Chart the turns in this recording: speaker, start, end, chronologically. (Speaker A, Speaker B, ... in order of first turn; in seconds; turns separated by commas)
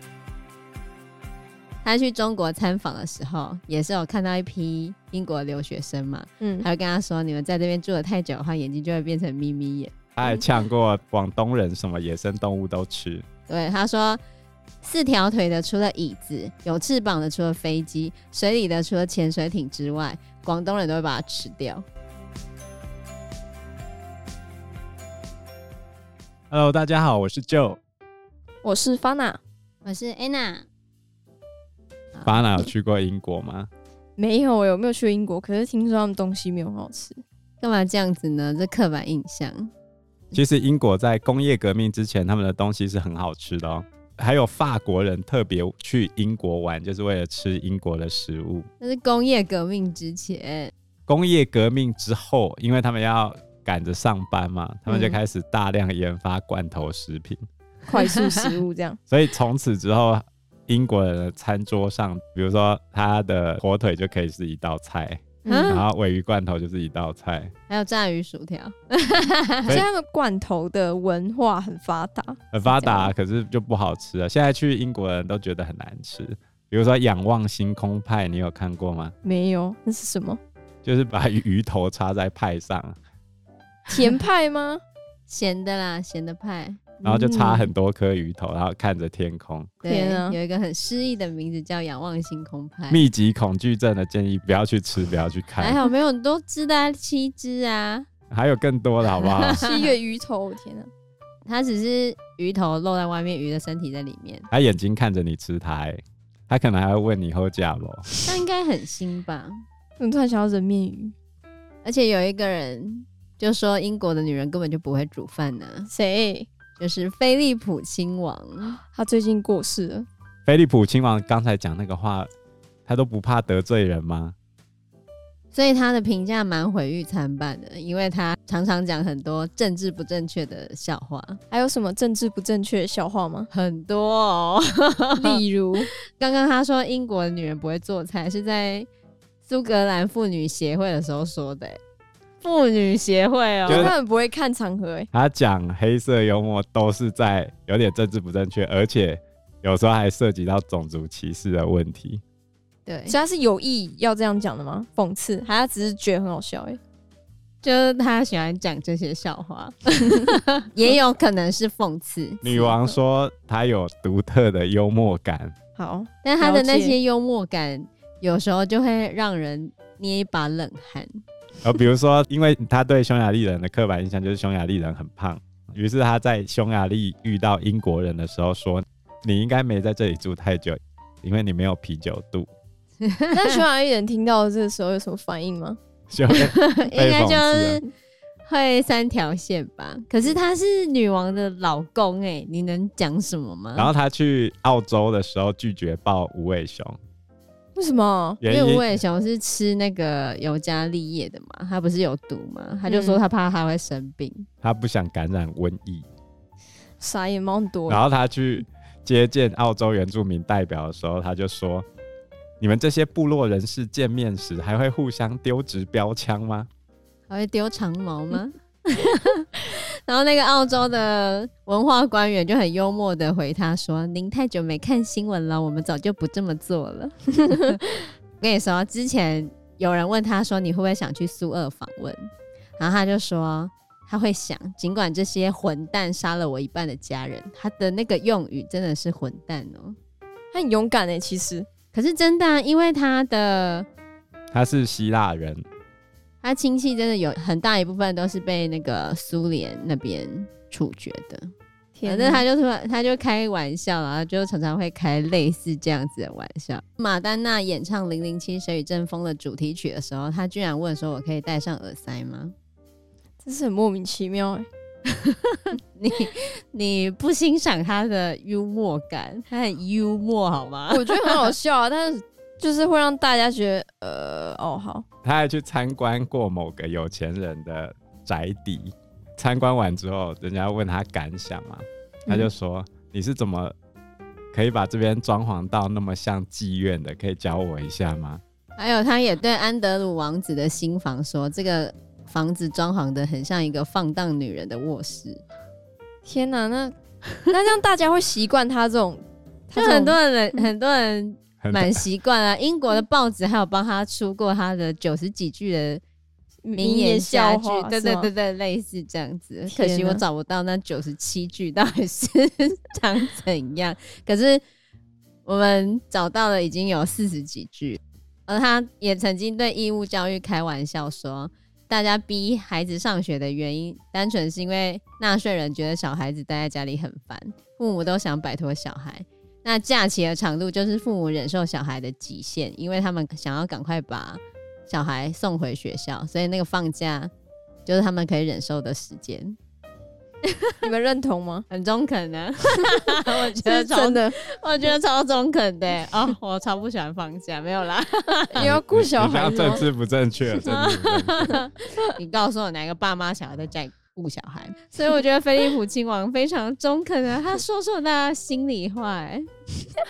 Speaker A: 1.8-9.9, Speaker B: 6.4-6.7, Speaker C: 10.2-13.2, Speaker A: 13.5-14.2, Speaker A: 14.8-21.9, Speaker C: 26.5-27.8, Speaker B: 28.6-29.4, Speaker A: 29.8-30.7, Speaker A: 32.1-32.7, Speaker C: 32.2-33.7, Speaker B: 34.2-37.2, Speaker A: 37.6-39.7, Speaker C: 40.3-48.7, Speaker A: 48.8-50.7, Speaker C: 51.1-57.4, Speaker B: 54.9-55.2, Speaker B: 57.9-59.0, Speaker A: 58.0-58.5, Speaker C: 59.1-67.5, Speaker B: 65.4-65.8, Speaker A: 65.5-65.8, Speaker A: 67.7-69.8, Speaker B: 69.7-72.4, Speaker C: 72.5-79.1, Speaker A: 72.6-73.1, Speaker B: 79.2-80.4, Speaker C: 80.8-83.0, Speaker B: 83.9-84.8, Speaker A: 85.3-87.4, Speaker C: 87.0-89.8, Speaker B: 87.3-87.7, Speaker A: 89.8-93.0, Speaker B: 89.8-90.4, Speaker C: 92.9-95.8, Speaker A: 95.6-98.1, Speaker C: 98.3-99.6, Speaker A: 99.2-99.9, Speaker B: 99.5-100.9, Speaker A: 101.4-104.5, Speaker C: 104.5-108.1, Speaker A: 108.2-109.5, Speaker B: 110.0-111.1, Speaker A: 111.8-115.9, Speaker B: 115.9-116.5, Speaker A: 116.8-118.8, Speaker B: 118.9-120.1, Speaker C: 120.5-122.3, Speaker C: 122.9-124.3, Speaker A: 125.5-131.4, Speaker B: 131.5-133.5, Speaker A: 133.5-135.4, Speaker B: 135.2-135.9, Speaker A: 136.1-138.9, Speaker A: 139.4-141.8, Speaker A: 142.4-143.9, Speaker C: 143.7-143.9, Speaker B: 143.7-145.1, Speaker C: 145.1-152.2, Speaker A: 152.9-153.2, Speaker B: 153.0-156.8, Speaker A: 157.6-162.8, Speaker C: 162.4-165.5, Speaker B: 165.8-167.0, Speaker A: 166.2-171.1, Speaker C: 171.6-182.5, Speaker A: 183.0-183.6, Speaker B: 183.3-185.8, Speaker C: 186.1-187.8, Speaker A: 186.3-187.9, Speaker A: 188.4-193.9, Speaker C: 193.8-197.0, Speaker B: 197.8-198.4, Speaker C: 198.4-198.9, Speaker A: 198.4-204.5, Speaker B: 202.9-203.2, Speaker C: 204.6-206.1, Speaker B: 207.0-208.0, Speaker C: 207.9-211.8, Speaker C: 212.6-216.7, Speaker A: 217.3-239.9, Speaker B: 240.5-241.7, Speaker A: 241.9-243.9, Speaker C: 244.5-245.6, Speaker A: 246.4-251.5, Speaker B: 251.9-252.4, Speaker A: 252.0-262.5, Speaker B: 263.4-264.7, Speaker A: 265.1-271.4, Speaker B: 270.9-275.0, Speaker C: 275.2-283.7, Speaker C: 284.5-288.4, Speaker A: 288.8-295.4, Speaker B: 296.2-296.9, Speaker B: 297.4-300.6, Speaker A: 299.7-306.0, Speaker C: 301.6-302.0, Speaker B: 306.6-308.3, Speaker A: 306.8-314.6, Speaker B: 309.7-310.2, Speaker A: 315.4-337.3, Speaker A: 337.9-339.6, Speaker A: 340.4-340.7, Speaker B: 340.8-341.6, Speaker A: 341.7-348.8, Speaker B: 343.6-344.4, Speaker B: 348.5-349.8, Speaker C: 348.6-351.6, Speaker A: 350.5-359.4